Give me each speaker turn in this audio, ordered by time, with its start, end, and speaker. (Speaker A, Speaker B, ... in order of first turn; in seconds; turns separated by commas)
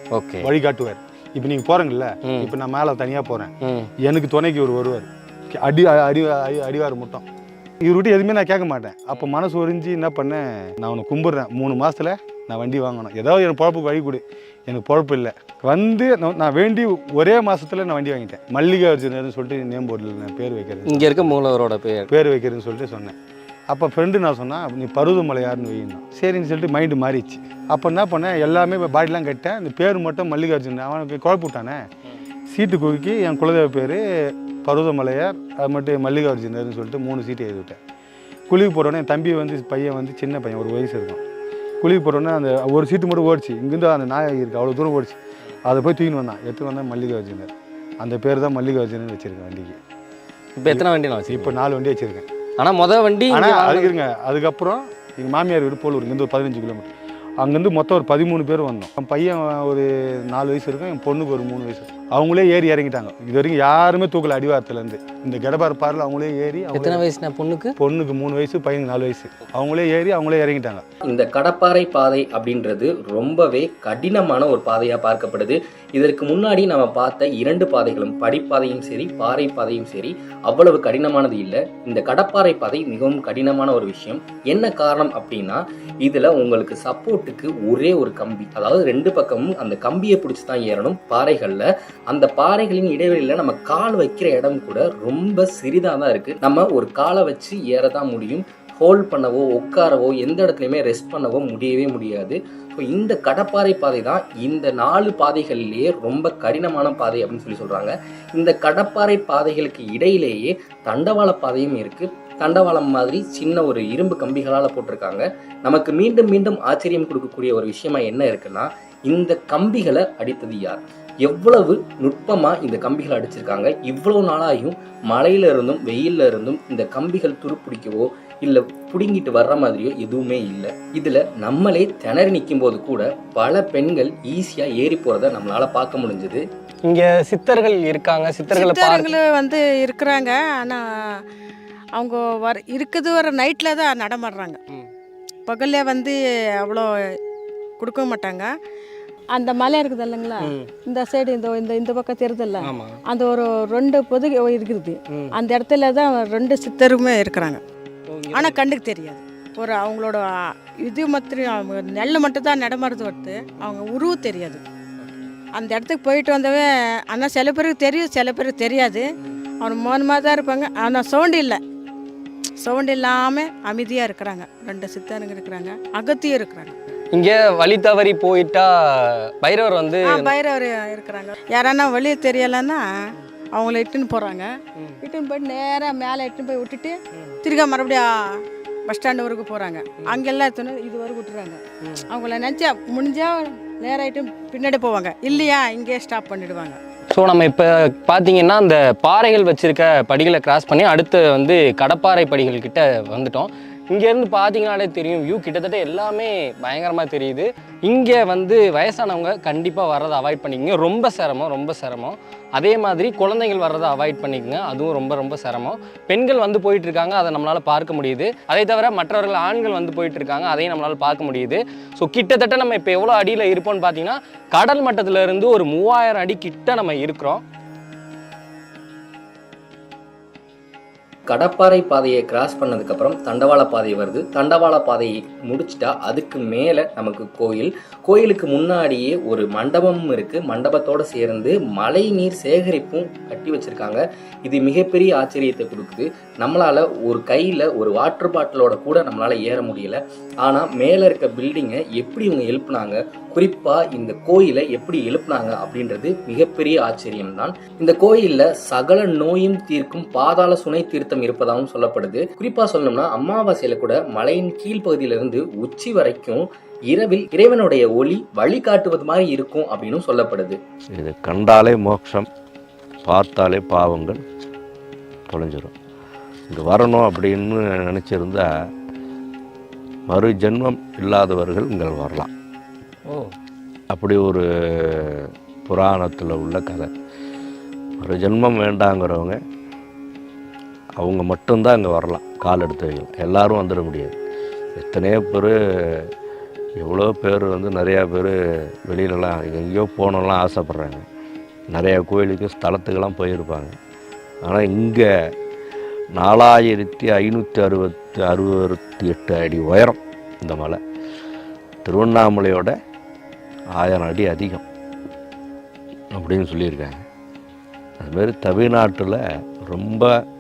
Speaker A: 0.1-0.5, Speaker B: 0.4-3.5, Speaker A: 2.2-2.5, Speaker A: 3.6-3.9, Speaker B: 4.0-7.2, Speaker B: 7.8-21.3, Speaker A: 20.9-22.1, Speaker B: 22.1-23.1, Speaker B: 23.7-31.8, Speaker B: 32.5-37.8, Speaker B: 38.5-41.2, Speaker B: 41.8-49.8, Speaker A: 50.6-51.5, Speaker B: 50.7-52.3, Speaker A: 52.6-53.9, Speaker B: 53.3-67.0, Speaker A: 66.7-67.8, Speaker B: 67.8-70.8, Speaker C: 71.1-136.4, Speaker A: 136.9-139.2, Speaker D: 138.5-140.8, Speaker D: 141.9-144.6, Speaker D: 145.5-146.9, Speaker D: 147.8-148.5, Speaker D: 149.3-157.6, Speaker A: 150.4-150.7, Speaker A: 152.6-153.0, Speaker A: 158.1-158.6, Speaker D: 158.3-160.2, Speaker D: 160.8-164.6, Speaker A: 165.0-165.3, Speaker D: 165.5-169.0, Speaker D: 169.6-171.6, Speaker D: 172.6-176.7, Speaker A: 177.1-180.3, Speaker D: 180.1-182.8, Speaker D: 183.5-184.5, Speaker D: 185.0-188.1, Speaker D: 188.9-196.8, Speaker A: 197.1-227.4, Speaker C: 231.3-270.6, Speaker E: 271.0-272.3, Speaker E: 273.1-274.2, Speaker E: 275.3-275.8, Speaker E: 276.5-278.5, Speaker E: 280.1-282.3, Speaker E: 283.9-286.9, Speaker E: 288.0-289.4, Speaker E: 291.0-294.2, Speaker E: 294.8-296.1, Speaker E: 296.8-298.3, Speaker E: 298.9-301.1, Speaker E: 301.7-303.8, Speaker E: 304.4-305.1, Speaker E: 306.1-310.8, Speaker E: 311.9-312.7, Speaker E: 313.8-314.6, Speaker E: 316.1-317.0, Speaker E: 318.0-320.1